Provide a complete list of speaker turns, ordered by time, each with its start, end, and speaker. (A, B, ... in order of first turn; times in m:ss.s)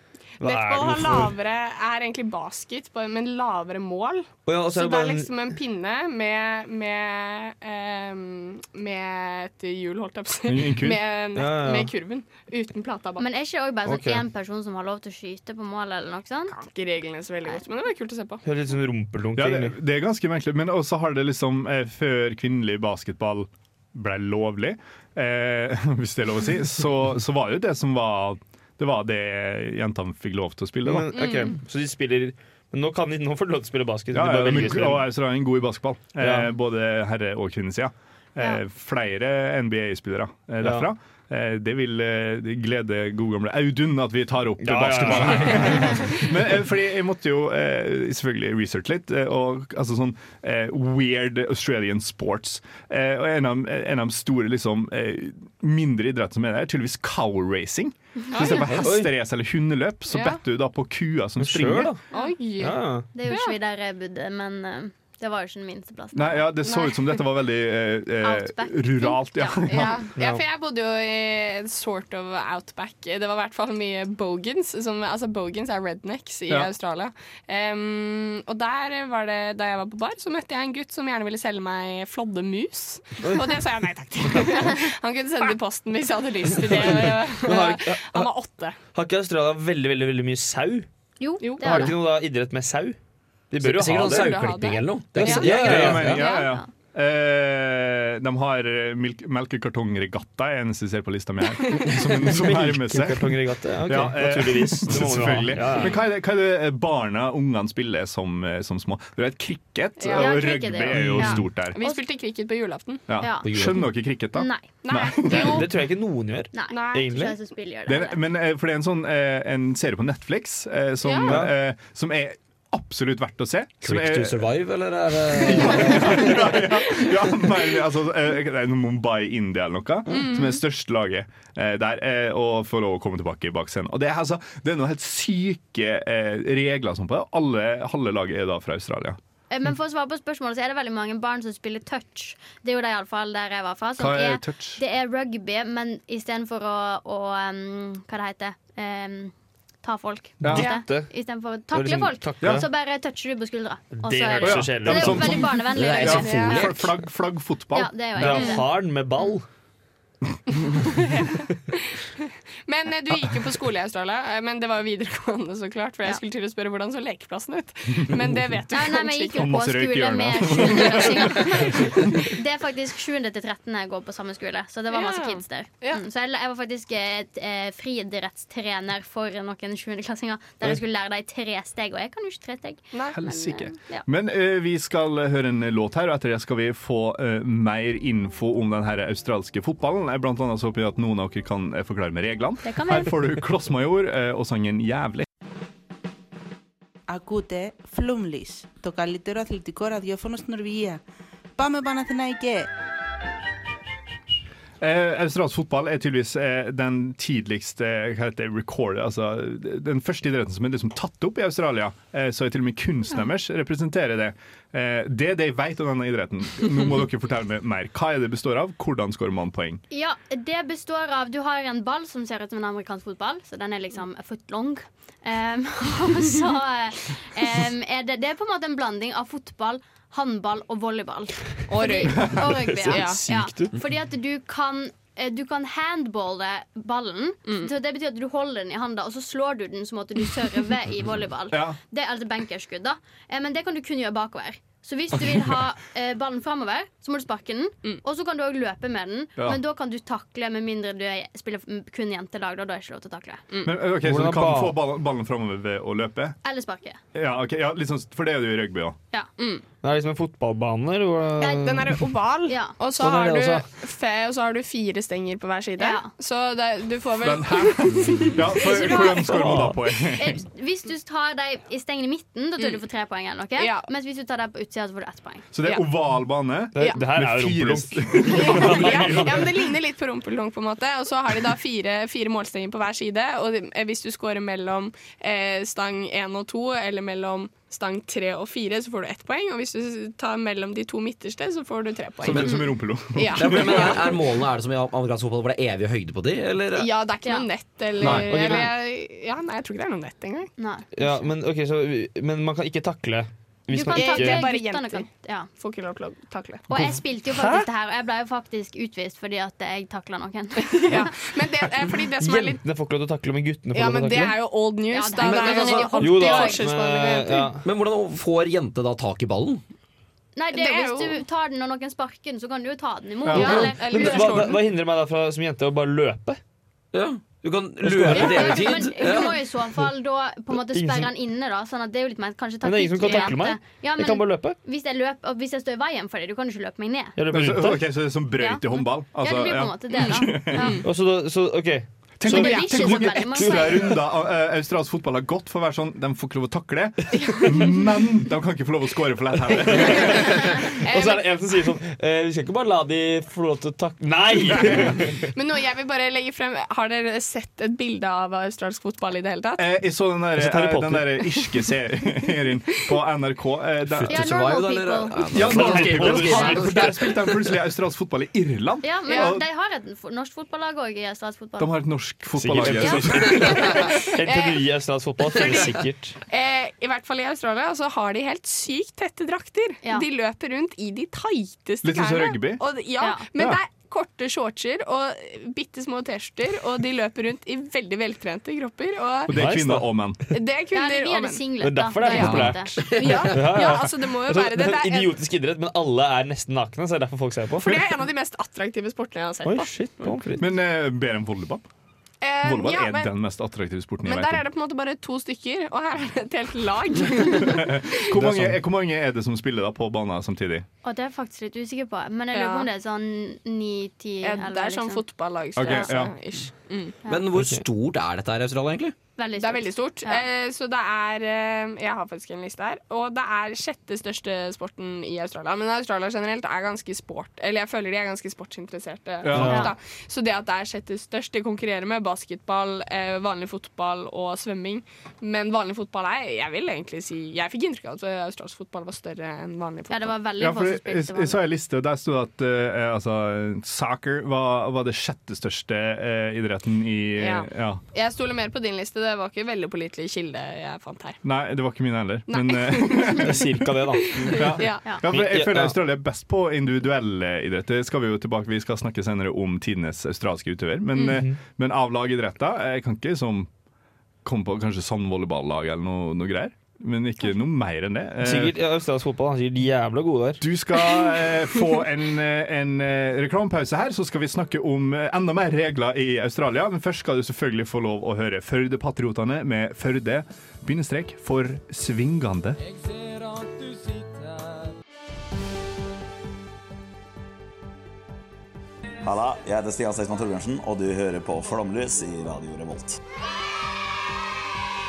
0:00.4-0:01.3 A
0:00.4-0:13.2 B
0:04.5-0:05.3 A
0:10.5-0:11.0 C
0:11.3-0:11.9 A
0:13.2-0:16.5 D
0:13.8-0:14.2 A
0:16.5-0:18.4 B
0:18.4-0:19.8 A
0:19.4-0:31.1 C
0:30.8-0:35.1 A
0:31.1-0:31.5 B
0:34.1-1:02.0 C
0:36.2-0:36.5 A
0:40.6-0:40.9 A
0:44.6-0:46.2 A
0:58.3-0:58.6 D
0:58.6-0:59.1 A
1:00.1-1:00.4 B
1:01.4-1:02.0 A
1:02.1-1:03.6 B
1:02.6-1:03.1 A
1:03.1-1:06.5 D
1:06.1-1:10.0 C
1:06.6-1:07.1 B
1:08.2-1:09.8 D
1:09.7-1:28.8 B
1:10.2-1:10.4 A
1:23.2-1:23.6 A
1:26.6-1:28.3 A
1:28.9-1:30.9 A
1:31.2-1:31.9 D
1:31.4-1:31.9 B
1:31.6-1:33.0 A
1:33.5-1:34.5 A
1:33.6-1:36.2 E
1:34.0-1:36.5 B
1:35.1-1:36.1 A
1:35.5-1:43.3 C
1:36.1-1:36.6 D
1:42.2-1:46.0 A
1:43.9-1:51.8 C
1:50.0-1:53.0 B
1:50.1-1:52.0 D
1:53.1-1:55.6 C
1:53.2-1:53.5 D
1:53.4-1:53.9 E
1:54.3-1:54.7 D
1:54.8-1:55.7 B
1:55.3-1:57.4 A
1:56.5-1:58.2 D
1:56.7-1:57.2 B
1:57.9-2:04.4 C
2:01.0-2:01.4 B
2:01.3-2:01.5 A
2:03.8-2:07.0 E
2:05.3-2:19.2 C
2:10.1-2:10.6 B
2:19.5-2:36.6 D
2:24.0-2:24.8 C
2:30.4-2:31.1 A
2:30.5-2:30.8 B
2:31.7-2:32.6 A
2:34.0-2:35.4 A
2:34.4-2:38.4 C
2:35.7-2:36.8 E
2:36.0-2:36.7 B
2:37.7-2:38.7 D
2:38.2-2:39.4 A
2:38.3-2:38.6 B
2:40.9-2:49.5 B
2:48.7-3:04.0 D
2:49.4-2:52.1 C
2:51.3-2:52.0 B
2:54.9-2:56.0 B
3:02.9-3:03.2 B
3:03.1-3:15.2 C
3:12.6-3:13.1 D
3:17.1-3:21.0 F
3:21.6-3:22.7 F
3:24.8-3:39.8 C
3:39.9-4:13.4 D
3:51.7-3:53.2 B
3:52.2-3:53.7 A
3:57.4-3:57.7 B
4:01.5-4:01.8 C
4:13.5-4:13.8 B
4:13.6-4:16.4 C
4:14.0-4:14.7 A
4:16.4-4:17.0 D
4:17.1-4:19.0 C
4:19.4-4:19.6 B
4:19.8-4:22.1 A
4:21.4-4:29.5 B
4:22.5-4:22.8 D
4:23.0-4:23.7 E
4:25.8-4:26.1 D
4:27.2-4:30.4 C
4:28.6-4:29.6 D
4:29.3-4:29.8 A
4:30.1-4:35.5 D
4:32.6-4:32.8 B
4:33.6-4:33.9 B
4:35.5-4:39.5 C
4:36.7-4:39.4 A
4:36.8-4:37.0 B
4:38.3-4:54.1 B
4:52.2-4:54.1 C
4:53.3-4:56.9 E
4:56.7-5:00.5 B
4:58.0-4:58.7 A
4:58.0-4:58.6 E
5:00.6-5:01.0 D
5:01.0-5:04.4 A
5:03.7-5:05.5 D
5:03.9-5:06.6 B
5:06.7-5:11.1 D
5:10.6-5:12.6 B
5:12.2-5:14.4 A
5:13.7-5:17.5 B
5:14.9-5:16.6 D
5:15.2-5:15.9 E
5:16.0-5:17.6 A
5:17.6-5:19.6 E
5:20.4-5:24.3 D
5:20.5-5:21.2 B
5:23.2-5:23.7 C
5:23.3-5:24.6 B
5:23.3-5:26.4 A
5:26.9-5:29.3 E
5:27.8-5:28.8 A
5:28.1-5:37.2 D
5:30.7-5:31.1 A
5:32.6-5:34.6 A
5:33.0-5:33.4 B
5:37.2-5:37.9 A
5:37.3-5:40.8 C
5:38.4-5:40.8 D
5:40.0-5:40.8 B
5:40.8-5:44.0 A
5:42.2-5:50.7 C
5:42.2-5:43.9 D
5:49.7-5:55.2 A
5:49.9-5:51.3 B
5:55.3-5:59.7 B
5:59.6-6:04.3 C
6:00.4-6:01.5 A
6:03.9-6:07.3 E
6:04.1-6:05.2 D
6:05.3-6:09.4 C
6:05.4-6:07.1 A
6:08.8-6:11.7 D
6:09.1-6:09.4 B
6:11.6-6:13.7 C
6:12.4-6:16.2 A
6:13.4-6:14.6 B
6:15.3-6:15.7 B
6:16.3-6:29.3 B
6:21.8-6:22.6 C
6:23.3-6:23.6 C
6:29.3-6:30.2 C
6:29.3-6:30.1 A
6:30.3-6:31.5 B
6:30.7-6:32.8 D
6:31.6-6:37.7 A
6:32.0-6:35.2 B
6:32.2-6:32.6 C
6:32.9-6:33.5 E
6:37.6-6:39.7 B
6:39.4-6:40.4 A
6:40.4-6:41.6 C
6:42.2-6:43.1 B
6:42.4-6:44.4 C
6:44.0-6:48.1 B
6:47.2-6:50.6 C
6:48.2-6:48.6 A
6:50.8-6:55.0 D
6:52.3-6:52.7 B
6:54.2-6:57.0 B
6:55.6-6:56.1 C
6:57.1-6:58.9 E
6:57.3-6:57.6 A
6:59.2-7:00.2 D
6:59.4-7:20.2 B
7:09.2-7:09.6 C
7:09.3-7:09.6 A
7:09.4-7:09.7 D
7:19.9-7:21.4 D
7:20.4-7:27.8 C
7:27.2-7:31.2 B
7:31.2-7:33.6 C
7:32.3-7:33.4 B
7:33.2-7:35.7 A
7:34.0-7:34.9 B
7:34.3-7:43.5 C
7:41.0-7:41.4 A
7:44.2-7:48.5 C
7:48.2-7:50.4 A
7:50.4-8:02.6 C
8:09.0-8:13.0 G